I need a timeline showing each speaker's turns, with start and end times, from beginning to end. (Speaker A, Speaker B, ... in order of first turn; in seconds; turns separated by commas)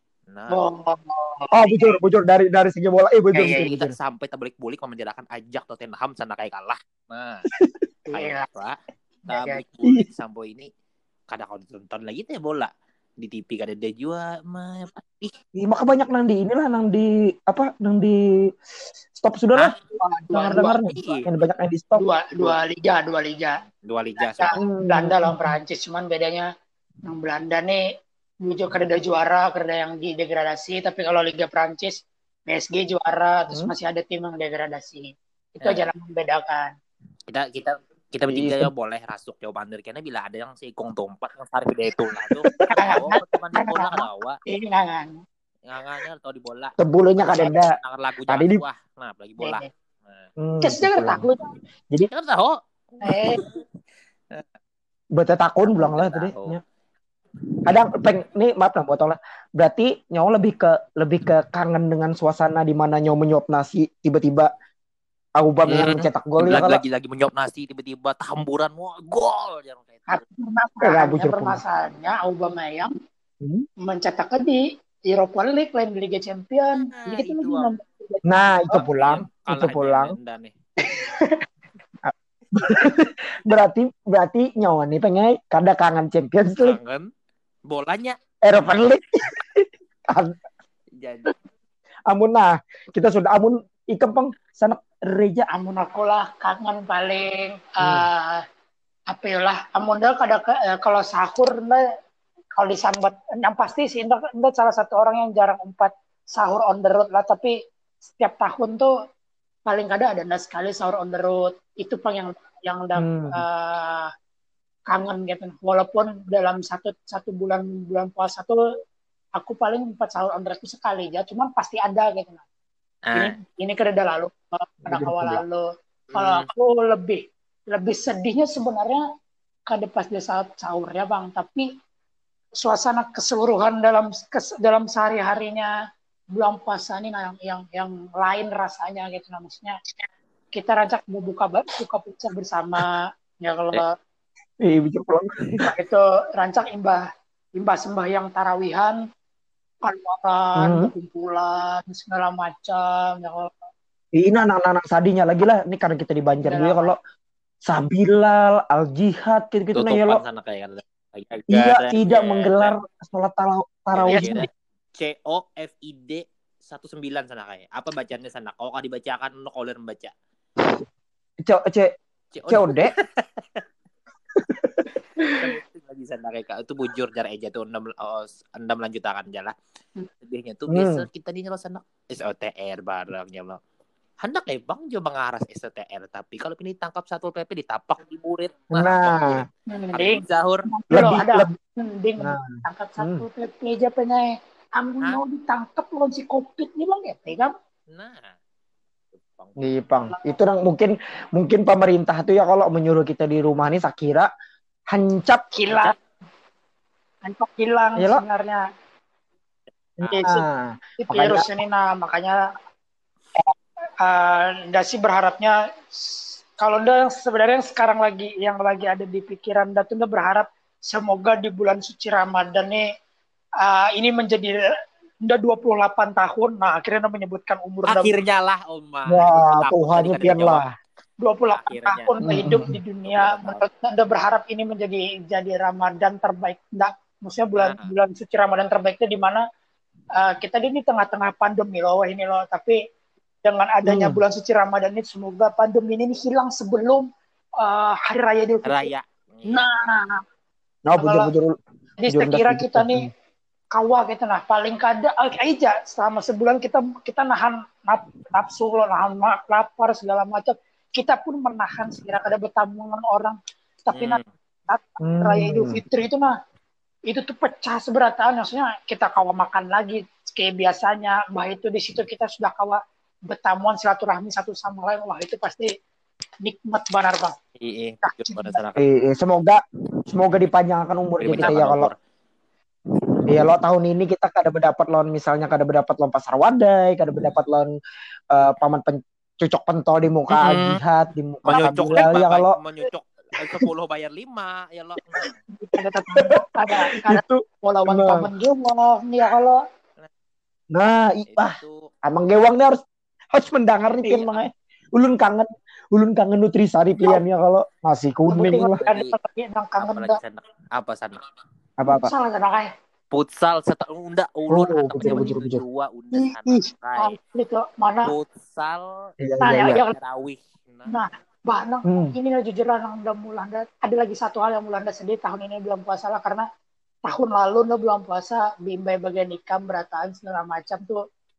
Speaker A: 0.3-0.6, Speaker B: 0.5-2.0, Speaker C: 1.5-4.0, Speaker B: 3.3-3.7, Speaker A: 3.4-7.5, Speaker B: 8.1-8.5, Speaker A: 8.1-10.7, Speaker B: 9.2-9.6, Speaker A: 11.3-15.3, Speaker C: 15.6-18.2, Speaker C: 19.2-22.5, Speaker B: 20.3-20.8, Speaker A: 20.6-21.3, Speaker B: 22.0-23.6, Speaker A: 23.8-24.6, Speaker B: 24.2-26.5, Speaker C: 24.6-25.6, Speaker B: 27.0-27.8, Speaker B: 28.4-36.7, Speaker A: 35.6-35.9, Speaker A: 37.3-44.4, Speaker C: 38.3-38.7, Speaker C: 42.4-42.9, Speaker B: 42.7-45.2, Speaker A: 45.6-50.3, Speaker C: 46.8-47.8, Speaker C: 48.3-48.6, Speaker B: 49.4-49.7, Speaker C: 50.4-51.2, Speaker B: 50.6-51.5, Speaker A: 52.0-53.6, Speaker B: 53.0-53.4, Speaker C: 55.1-56.6, Speaker A: 55.7-56.6, Speaker C: 57.6-64.5, Speaker C: 65.4-66.8, Speaker A: 65.7-70.2, Speaker B: 70.1-72.9, Speaker C: 70.8-71.6, Speaker C: 73.4-73.7, Speaker B: 73.8-78.5, Speaker A: 76.8-77.7, Speaker C: 78.2-80.2, Speaker A: 78.7-80.5, Speaker B: 80.8-81.5, Speaker C: 82.0-86.8, Speaker A: 86.5-87.1, Speaker A: 87.7-88.8, Speaker C: 88.4-90.4, Speaker A: 91.0-91.3, Speaker C: 92.1-95.5, Speaker B: 95.5-98.4, Speaker C: 97.8-98.0, Speaker B: 99.1-101.8, Speaker B: 102.5-107.5, Speaker B: 108.2-108.9, Speaker B: 109.7-114.1, Speaker C: 113.0-113.4, Speaker B: 114.9-118.6, Speaker B: 119.4-122.4, Speaker A: 123.0-123.3, Speaker B: 123.1-129.0, Speaker C: 124.9-125.4, Speaker A: 126.1-126.5, Speaker B: 129.7-131.7, Speaker B: 132.6-135.7, Speaker B: 136.3-139.8, Speaker B: 140.5-143.9, Speaker C: 144.6-145.6, Speaker B: 145.6-147.0, Speaker B: 147.6-149.0, Speaker B: 149.8-153.5, Speaker C: 150.6-150.9, Speaker C: 154.1-157.0, Speaker B: 156.5-156.9, Speaker C: 157.7-160.2, Speaker A: 159.7-162.8, Speaker C: 161.5-164.4, Speaker A: 163.9-170.1, Speaker B: 164.1-164.4, Speaker C: 171.4-171.9, Speaker A: 172.3-173.6, Speaker C: 172.5-172.9, Speaker C: 174.4-174.9, Speaker A: 175.4-179.5, Speaker A: 180.2-183.6, Speaker C: 180.7-181.1, Speaker A: 184.2-190.7, Speaker C: 188.7-189.4, Speaker B: 189.7-197.5, Speaker C: 190.9-191.5, Speaker C: 192.2-193.2, Speaker A: 197.9-198.3, Speaker A: 199.2-199.9, Speaker C: 199.6-204.3, Speaker C: 204.9-205.5, Speaker B: 205.5-205.9, Speaker A: 205.7-205.9, Speaker B: 207.2-208.6, Speaker C: 208.0-208.2, Speaker C: 210.0-211.5, Speaker B: 210.1-210.4, Speaker B: 211.0-212.4, Speaker B: 214.0-222.8, Speaker B: 223.6-224.6, Speaker B: 225.2-228.2, Speaker A: 227.9-230.6, Speaker C: 229.1-230.7, Speaker B: 231.2-239.4, Speaker A: 231.5-232.2, Speaker C: 232.2-232.8, Speaker A: 233.1-233.6, Speaker A: 237.6-237.9, Speaker B: 240.1-242.8, Speaker B: 243.4-247.1, Speaker C: 243.8-244.2, Speaker B: 247.6-248.9, Speaker A: 248.6-249.9, Speaker B: 249.5-250.2, Speaker C: 250.9-251.6, Speaker B: 251.0-251.3, Speaker B: 252.0-253.1, Speaker C: 252.1-253.1, Speaker B: 253.7-266.3, Speaker A: 263.9-264.2, Speaker C: 265.0-265.8, Speaker B: 267.1-275.7, Speaker B: 276.4-277.4, Speaker A: 277.6-278.8, Speaker B: 278.0-278.6, Speaker C: 278.8-281.9, Speaker A: 281.2-281.9, Speaker C: 283.3-287.7, Speaker C: 288.3-292.6, Speaker A: 290.3-290.8, Speaker A: 291.4-295.4, Speaker B: 295.6-299.6, Speaker C: 296.1-298.3, Speaker C: 300.7-302.8, Speaker A: 301.3-301.9, Speaker C: 303.3-308.8, Speaker B: 308.3-310.2, Speaker A: 308.8-309.1, Speaker A: 309.8-311.3, Speaker C: 311.8-312.1, Speaker B: 311.9-312.7, Speaker A: 313.1-317.1, Speaker C: 314.5-315.6, Speaker B: 315.0-315.3, Speaker B: 316.1-318.1, Speaker A: 318.0-321.0, Speaker C: 319.2-319.8, Speaker B: 319.4-319.9, Speaker B: 320.9-326.4, Speaker C: 321.9-322.1, Speaker B: 327.0-331.0